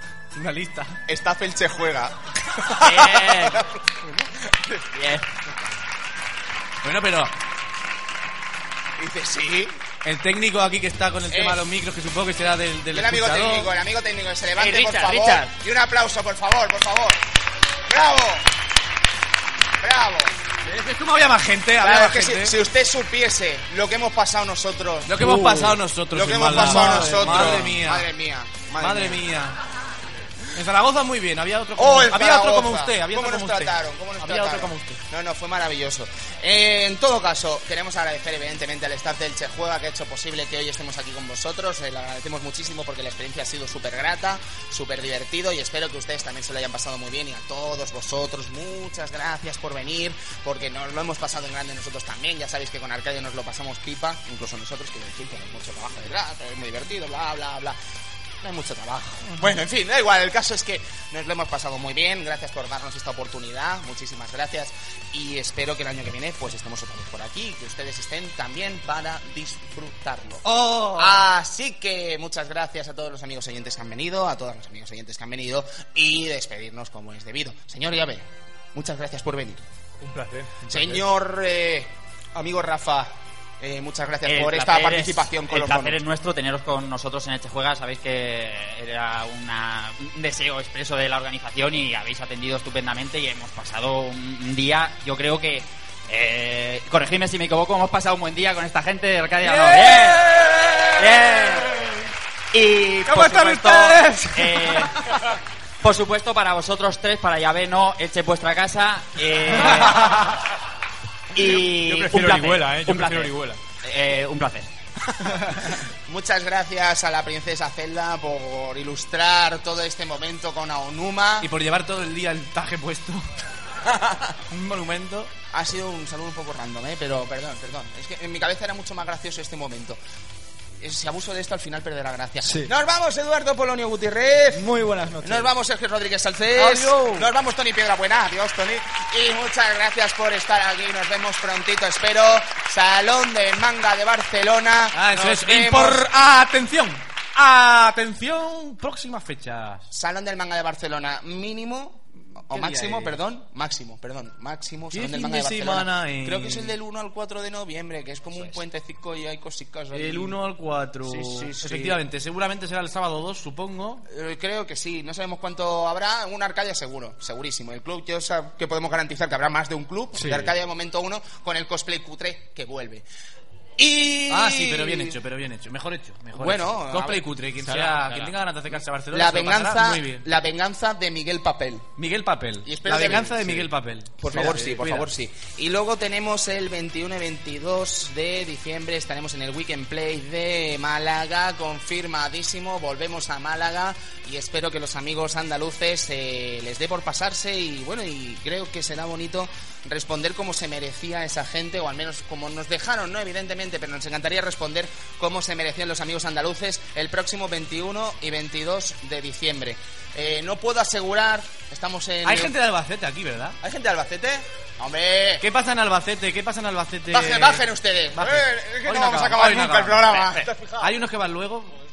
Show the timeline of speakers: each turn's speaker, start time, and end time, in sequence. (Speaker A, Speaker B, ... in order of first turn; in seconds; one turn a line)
Speaker A: 0.3-1.0
Speaker B: 1.1-3.8
Speaker C: 2.8-3.6
Speaker B: 4.4-4.8
Speaker C: 4.9-5.3
Speaker A: 6.8-7.3
Speaker B: 9.0-9.8
Speaker A: 10.0-13.7
Speaker B: 11.3-11.6
Speaker B: 12.9-17.2
Speaker C: 14.6-15.5
Speaker B: 17.9-18.5
Speaker B: 19.8-20.3
Speaker A: 20.6-22.5
Speaker B: 21.8-29.2
Speaker A: 25.1-28.1
Speaker D: 26.9-27.6
Speaker A: 28.8-29.6
Speaker A: 30.5-35.0
Speaker B: 31.8-57.8
Speaker B: 58.4-79.6
Speaker A: 70.6-71.2
Speaker E: 80.0-81.0
Speaker B: 80.7-86.0
Speaker C: 84.2-100.3
Speaker A: 99.4-101.3
Speaker C: 101.0-101.7
Speaker C: 102.5-104.9
Speaker A: 103.0-104.9
Speaker C: 105.8-110.2
Speaker C: 111.3-113.3
Speaker E: 111.5-113.6
Speaker C: 113.8-114.7
Speaker B: 116.0-121.5
Speaker A: 121.4-123.3
Speaker A: 124.5-125.3
Speaker B: 125.5-130.0
Speaker B: 130.8-134.7
Speaker D: 134.5-135.5
Speaker B: 135.2-146.1
Speaker A: 136.5-137.3
Speaker A: 144.9-149.9
Speaker B: 149.9-160.4
Speaker A: 152.5-153.2
Speaker A: 154.9-156.7
Speaker A: 159.9-164.0
Speaker D: 161.1-161.5
Speaker B: 164.1-173.0
Speaker D: 170.2-170.5
Speaker B: 173.8-175.2
Speaker A: 174.3-180.2
Speaker B: 176.3-177.2
Speaker D: 177.6-178.3
Speaker B: 179.1-181.9
Speaker A: 182.0-185.1
Speaker B: 182.6-212.5
Speaker A: 212.2-213.6
Speaker B: 213.6-215.4
Speaker A: 215.4-221.7
Speaker B: 217.1-220.5